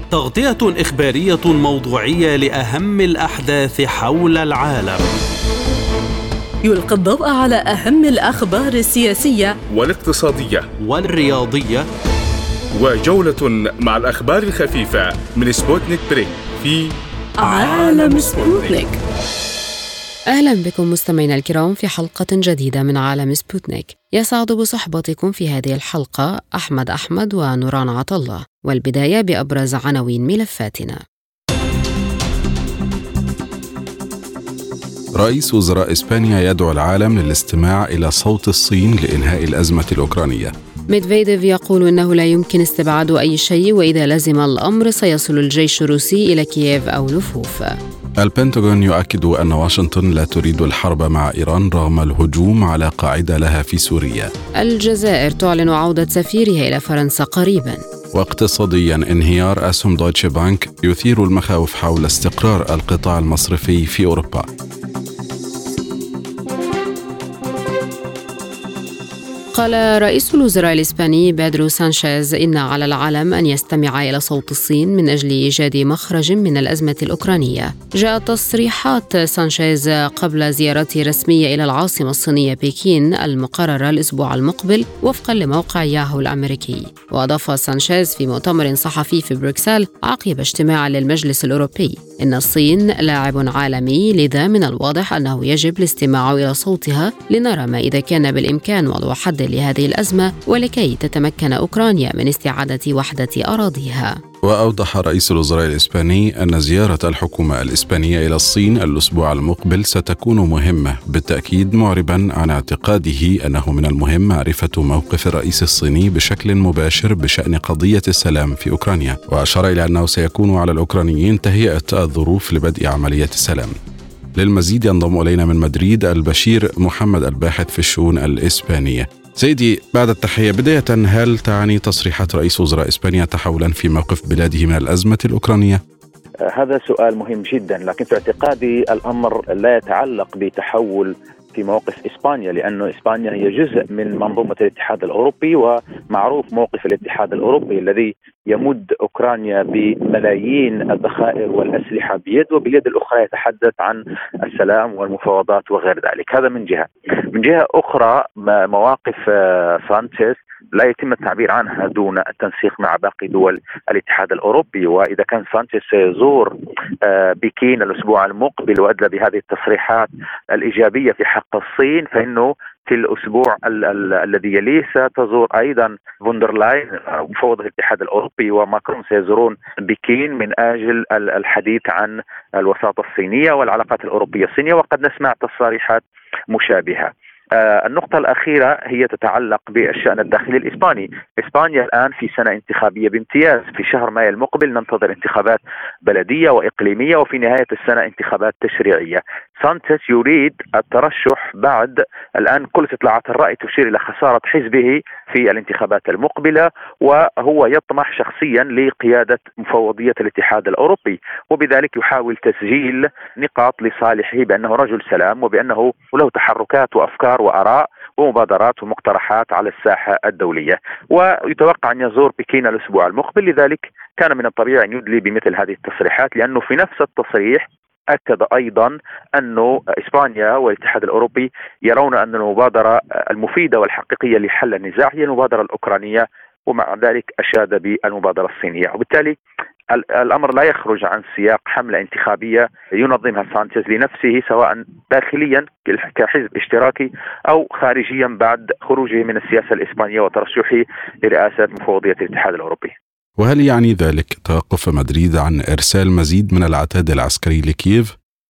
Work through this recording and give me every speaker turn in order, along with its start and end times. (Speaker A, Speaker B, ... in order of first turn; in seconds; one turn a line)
Speaker A: 0.1-5.1
Speaker B: 6.6-9.6
Speaker C: 9.7-10.7
Speaker A: 10.8-11.9
Speaker C: 12.7-18.8
Speaker B: 17.4-19.0
Speaker D: 20.3-31.0
Speaker E: 35.2-40.5
Speaker D: 40.9-47.8
Speaker E: 48.2-54.3
Speaker D: 54.6-57.8
Speaker E: 58.1-64.5
Speaker D: 69.5-104.2
Speaker E: 104.4-123.7
Speaker E: 124.3-135.8
Speaker F: 136.4-239.4
Speaker F: 239.9-252.9
Speaker E: 253.4-258.1